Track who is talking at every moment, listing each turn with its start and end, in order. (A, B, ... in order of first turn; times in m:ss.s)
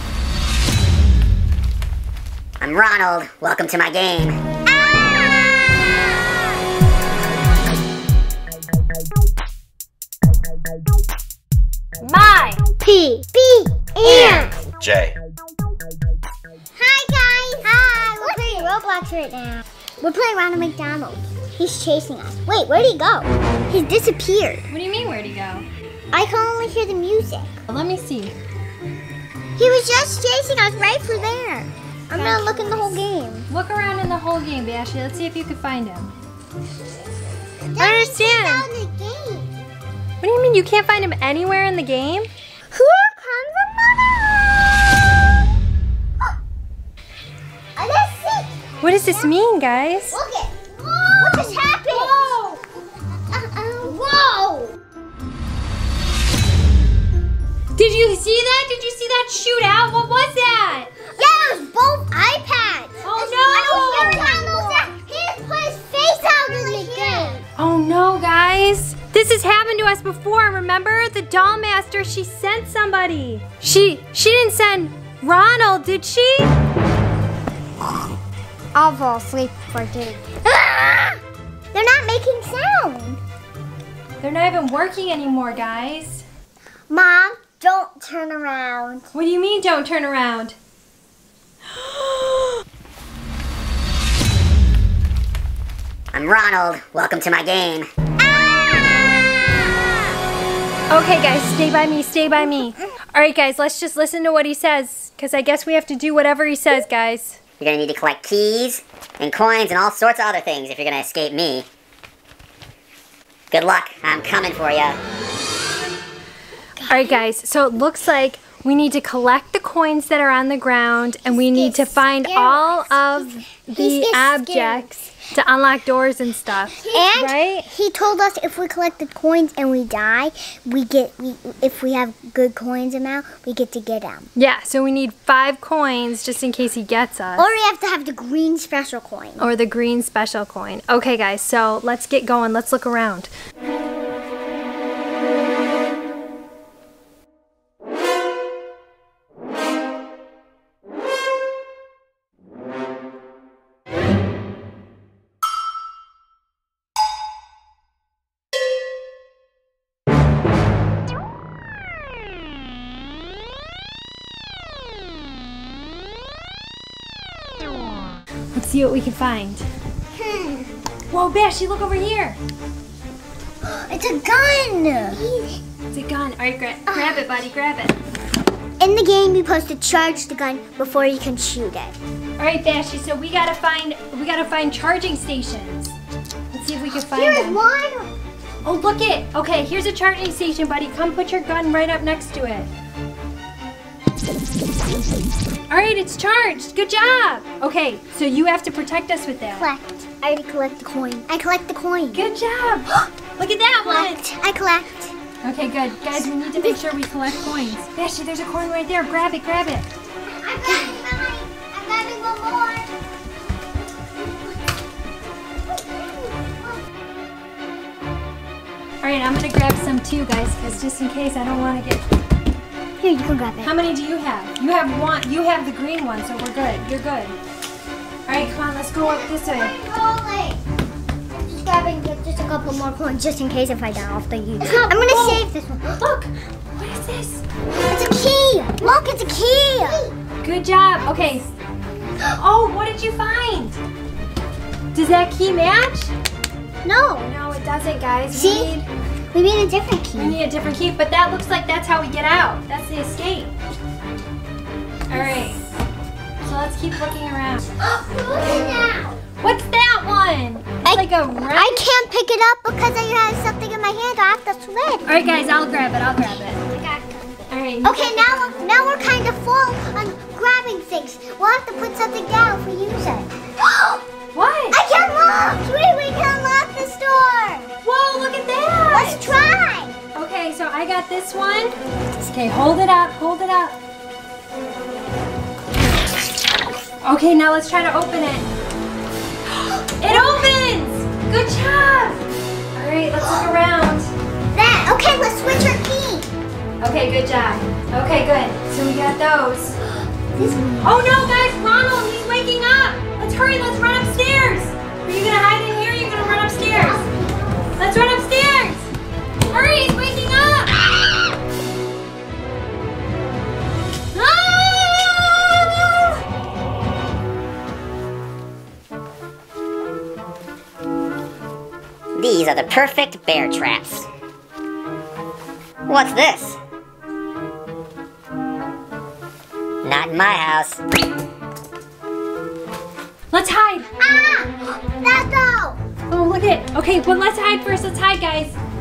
0:02.6-0:04.4 A
0:04.7-0:06.0 B
0:12.0-0:12.6 C
0:12.8-0:14.6 B
0:16.8-0:24.7 B
0:24.7-0:25.7 C
0:26.1-0:27.6 B
0:27.7-0:28.3 C
0:29.6-0:33.5 B
0:32.1-0:33.0 C
0:33.5-0:36.1 C
0:37.7-0:39.6 B
0:37.8-0:38.7 C
0:40.2-0:42.3 C
0:42.7-0:45.0 B
0:47.8-0:49.3 B
0:48.8-0:50.2 C
0:50.1-0:52.4 B
0:51.9-0:52.6 C
0:53.3-0:54.7 B
0:57.8-1:00.9 C
1:01.1-1:07.4 B
1:03.0-1:04.4 C
1:06.9-1:16.5 C
1:18.7-1:21.2 B
1:21.7-1:23.2 B
1:24.2-1:26.2 C
1:26.9-1:29.1 B
1:29.1-1:30.6 C
1:36.1-1:37.9 A
1:38.2-1:39.8 B
1:40.9-1:47.4 C
1:47.6-1:51.7 A
1:53.5-1:55.0 A
1:56.8-1:57.2 B
1:56.9-2:07.7 C
2:01.2-2:04.9 B
2:06.9-2:14.3 B
2:14.4-2:17.5 C
2:17.4-2:19.5 B
2:19.4-2:23.3 C
2:48.6-2:49.7 C
2:50.1-2:50.7 B
2:51.1-2:52.4 C
2:53.6-2:55.6 B
2:55.9-2:58.0 C
2:56.9-2:57.2 B
2:58.8-3:02.0 B
3:02.4-3:06.0 C
3:06.5-3:07.6 C
3:07.1-3:08.1 B
3:08.6-3:12.7 C
3:15.7-3:19.7 C
3:19.5-3:22.2 B
3:22.1-3:24.2 C
3:23.9-3:25.1 B
3:25.4-3:29.9 C
3:30.4-3:32.9 B
3:36.3-3:36.7 B
3:39.0-3:42.0 C
3:43.0-3:43.7 B
3:43.6-3:47.4 C
3:48.3-3:49.7 C
3:49.0-3:50.6 B
3:51.3-3:56.0 B
3:54.6-3:55.4 C
3:56.0-3:57.4 C
3:57.9-4:00.2 B
4:00.4-4:01.5 C
4:02.3-4:03.8 C
4:04.9-4:06.1 C
4:06.8-4:07.3 B
4:07.2-4:08.9 C
4:08.3-4:08.8 B
4:09.3-4:10.4 B
4:10.2-4:13.5 C
4:15.1-4:15.6 C
4:16.4-4:17.6 C
4:17.8-4:19.2 B
4:19.4-4:22.0 C
4:20.8-4:25.1 B
4:25.0-4:26.6 C
4:26.6-4:34.0 B
4:27.5-4:28.5 C
4:34.3-4:34.8 C
4:34.7-4:37.7 B
4:37.8-4:39.4 C
4:38.9-4:40.0 B
4:40.1-4:43.8 C
4:47.0-4:48.5 C
4:49.6-4:52.2 C
4:50.0-4:50.5 B
4:52.8-4:54.1 C
4:54.5-4:56.3 B
4:56.8-4:59.8 C
5:00.2-5:00.9 B
5:00.8-5:07.0 C
5:06.0-5:07.8 B
5:07.8-5:08.9 C
5:09.5-5:10.8 C
5:14.2-5:16.0 C
5:22.2-5:24.1 A
5:25.9-5:26.6 A
5:29.8-5:30.8 A
5:33.3-5:33.9 C
5:34.0-5:35.8 B
5:36.1-5:38.6 C